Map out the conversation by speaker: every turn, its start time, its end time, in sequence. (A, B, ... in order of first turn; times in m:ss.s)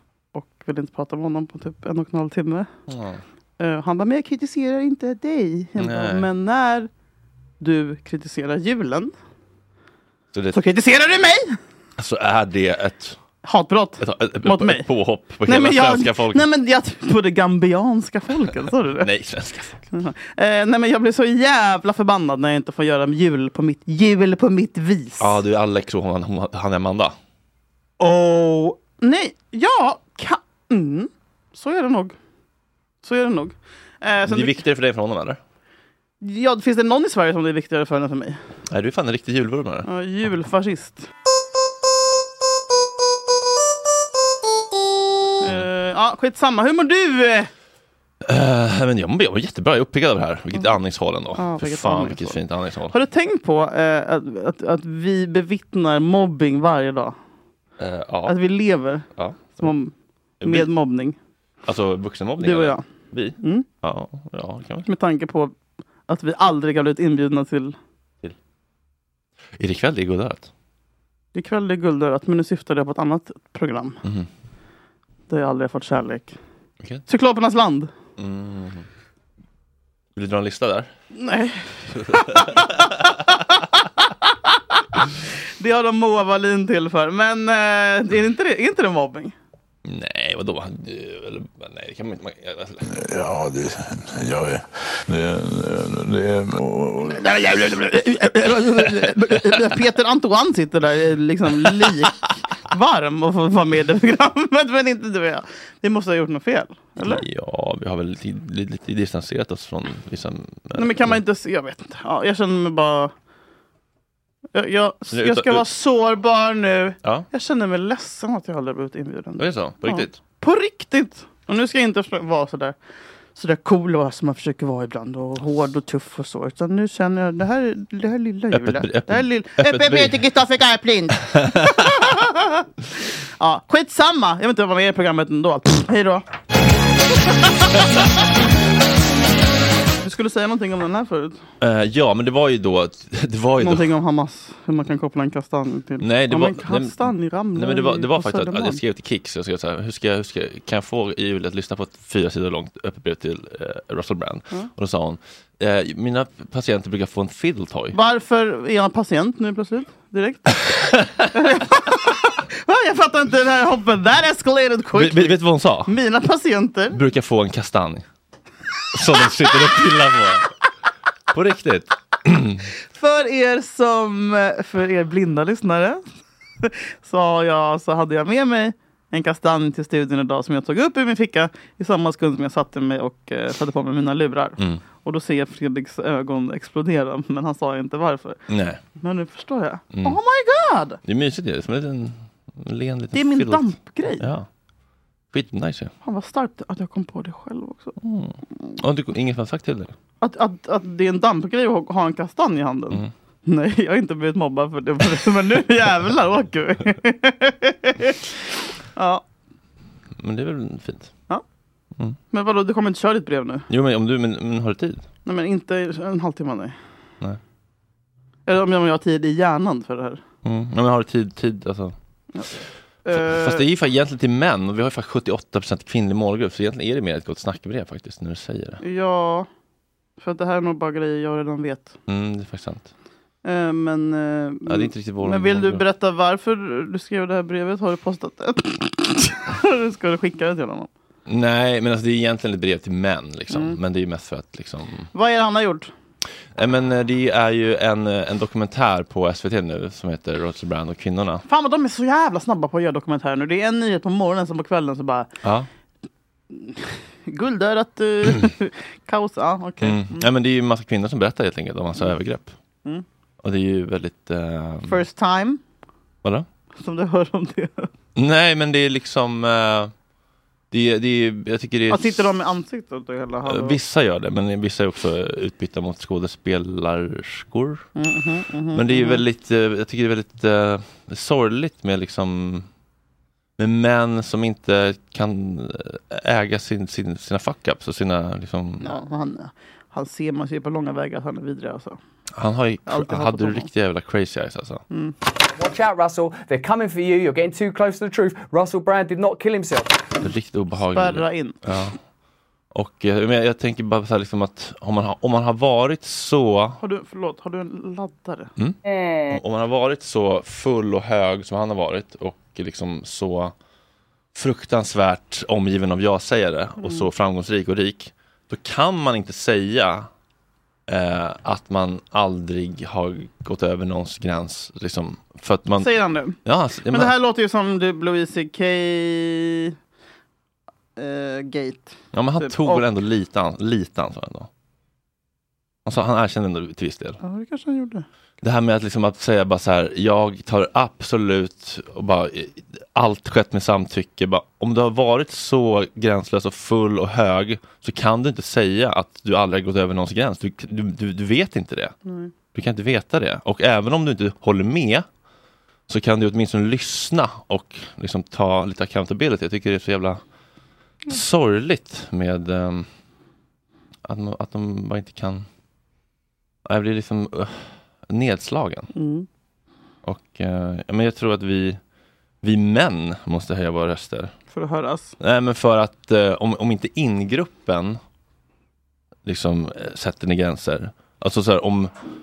0:00.3-0:02.7 A
0:02.9-0:03.2 B
0:03.6-0:06.9 A
0:05.8-0:06.3 B
0:07.6-0:09.1 A
0:10.3-0:10.6 B
0:10.5-0:11.6 A
0:12.0-0:13.2 B
0:13.4-0:14.8 A
0:14.0-0:16.4 B
0:15.5-0:19.1 A
0:19.0-0:19.8 B
0:19.9-0:25.4 A
0:25.2-0:27.2 B
0:28.0-0:32.2 A
0:33.0-0:34.6 A
0:34.3-0:35.4 B
0:36.2-0:38.4 A
0:38.7-0:39.9 B
0:39.8-0:41.1 A
0:45.4-0:47.5 A
0:48.2-0:52.9 B
0:51.4-0:52.4 A
0:52.9-0:57.2 A
0:57.8-0:58.4 B
0:58.2-0:59.1 A
0:59.2-0:59.6 B
0:59.6-0:59.9 A
1:00.4-1:00.7 B
1:00.4-1:01.2 A
1:01.7-1:04.8 B
1:02.4-1:02.8 A
1:03.4-1:03.7 A
1:04.8-1:05.5 A
1:06.1-1:07.8 A
1:09.6-1:10.5 B
1:11.3-1:14.0 A
1:15.3-1:16.3 A
1:17.1-1:17.9 A
1:18.2-1:18.9 B
1:20.2-1:20.9 B
1:21.1-1:24.1 A
1:22.0-1:22.9 B
1:25.6-1:29.3 A
1:29.8-1:32.8 B
1:32.9-1:37.3 C
1:37.2-1:42.2 A
1:42.7-1:47.2 A
1:47.0-1:51.2 B
1:50.8-1:53.1 A
1:54.5-2:02.8 A
1:55.1-1:55.6 B
1:59.4-2:00.2 B
2:03.4-2:12.6 A
2:08.5-2:10.2 B
2:11.3-2:11.9 B
2:13.4-2:16.2 A
2:17.5-2:18.0 A
2:20.0-2:21.4 A
2:21.6-2:23.9 B
2:23.6-2:28.8 A
2:26.0-2:38.0 B
2:37.9-2:40.6 A
2:40.8-2:41.3 B
2:41.3-2:47.0 A
2:45.0-2:45.9 B
2:46.9-2:48.0 B
2:48.9-2:50.5 B
2:51.3-2:52.7 B
2:53.0-2:56.0 A
2:56.6-3:08.4 A
3:08.5-3:08.8 B
3:09.0-3:11.0 A
3:09.9-3:10.2 B
3:11.0-3:14.5 B
3:13.1-3:14.3 A
3:15.3-3:15.9 B
3:16.0-3:18.0 A
3:18.0-3:19.9 B
3:20.2-3:28.2 A
3:29.0-3:29.2 A
3:30.2-3:31.1 B
3:32.3-3:33.7 A
3:33.7-3:35.0 B
3:35.2-3:36.8 A
3:38.5-3:40.2 A
3:40.4-3:42.0 B
3:43.0-3:43.6 A
3:43.1-3:48.8 B
3:48.8-3:49.5 A
3:50.2-3:51.9 A
3:52.1-3:52.9 B
3:53.4-4:00.9 A
3:54.7-3:55.8 B
4:01.3-4:05.1 B
4:03.5-4:03.8 A
4:05.1-4:05.9 A
4:06.5-4:11.4 B
4:11.5-4:15.3 A
4:15.4-4:15.7 B
4:16.5-4:20.3 A
4:19.8-4:22.5 B
4:23.4-4:25.0 B
4:24.9-4:25.6 A
4:26.8-4:27.9 A
4:28.2-4:29.9 B
4:30.7-4:32.3 B
4:31.9-4:33.8 A
4:33.4-4:37.8 B
4:38.0-4:39.2 A
4:38.7-4:42.7 B
4:43.6-4:48.9 B
4:48.8-4:52.0 A
4:52.4-4:54.8 B
4:52.9-4:53.7 A
4:55.5-5:00.1 D
5:00.2-5:02.0 B
5:00.9-5:01.6 A
5:02.7-5:06.8 B
5:06.8-5:08.5 A
5:08.6-5:13.5 B
5:14.3-5:20.1 B
5:20.9-5:27.1 B
5:25.8-5:26.4 A
5:26.9-5:29.8 A
5:31.0-5:32.8 A
5:32.1-5:34.5 B
5:35.8-5:37.2 B
5:37.2-5:38.0 A
5:38.4-5:52.0 B
5:52.0-5:52.3 A
5:52.5-5:55.0 B
5:55.9-6:00.2 B
6:01.1-6:02.9 B
6:04.0-6:05.5 B
6:06.6-6:08.9 B
6:08.9-6:09.3 A
6:10.0-6:11.8 B
6:12.4-6:14.3 B
6:14.5-6:15.1 A
6:15.2-6:18.0 B
6:19.2-6:21.9 B